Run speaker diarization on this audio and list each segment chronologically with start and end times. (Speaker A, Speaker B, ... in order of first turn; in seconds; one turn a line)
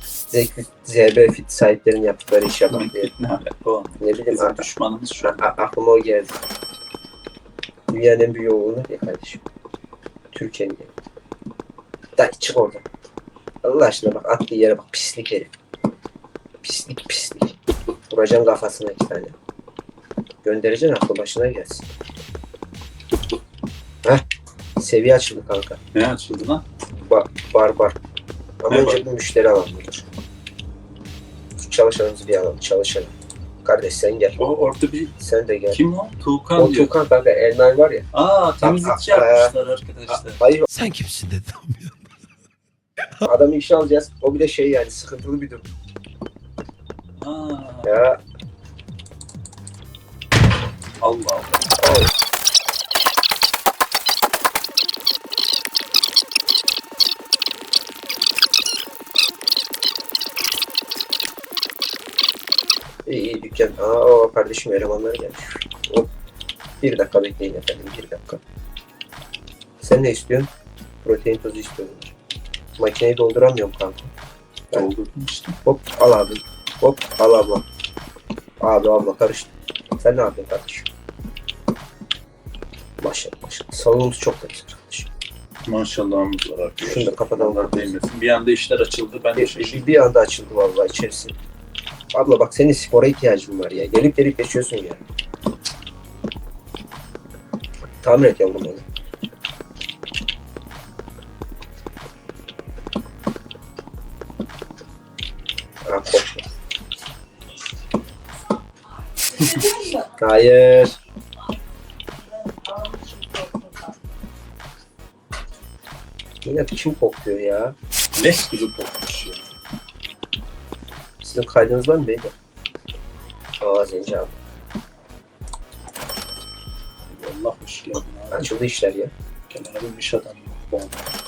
Speaker A: 0.3-3.1
Speaker B: 2.7-5.4
Speaker A: 4.0-4.7
Speaker A: 5.2-6.4
Speaker A: 7.9-9.4
Speaker A: 10.3-10.9
Speaker A: 12.2-12.8
Speaker A: 13.6-15.5
Speaker A: 16.6-17.6
Speaker A: 18.1-19.3
Speaker A: 20.4-21.9
Speaker A: 24.8-25.8
Speaker B: 25.9-26.6
Speaker A: 26.9-28.0
Speaker A: 28.6-30.1
Speaker B: 28.7-29.0
Speaker A: 31.6-34.5
Speaker B: 34.4-35.1
Speaker A: 35.2-35.8
Speaker B: 35.7-36.9
Speaker A: 36.5-38.1
Speaker B: 38.1-40.4
Speaker A: 38.6-39.5
Speaker A: 40.1-40.7
Speaker C: 40.7-41.9
Speaker A: 43.2-45.6
Speaker B: 47.2-47.9
Speaker A: 47.8-48.2
Speaker B: 51.0-51.7
Speaker A: 51.8-52.1
Speaker A: 63.0-66.1
Speaker A: 66.8-68.4
Speaker A: 69.8-70.5
Speaker A: 71.0-72.1
Speaker A: 72.8-74.1
Speaker B: 74.7-75.6
Speaker A: 75.6-77.6
Speaker A: 78.6-80.9
Speaker A: 83.0-85.1
Speaker B: 85.7-90.0
Speaker A: 86.8-88.0
Speaker A: 89.3-91.3
Speaker A: 92.1-95.0
Speaker A: 98.0-98.8
Speaker A: 105.8-106.4
Speaker A: 109.8-111.0
Speaker C: 112.7-113.5
Speaker A: 116.4-117.8
Speaker B: 118.1-119.5
Speaker A: 121.2-122.3
Speaker A: 123.6-124.3
Speaker B: 127.1-128.5
Speaker A: 128.3-129.1
Speaker B: 129.5-131.1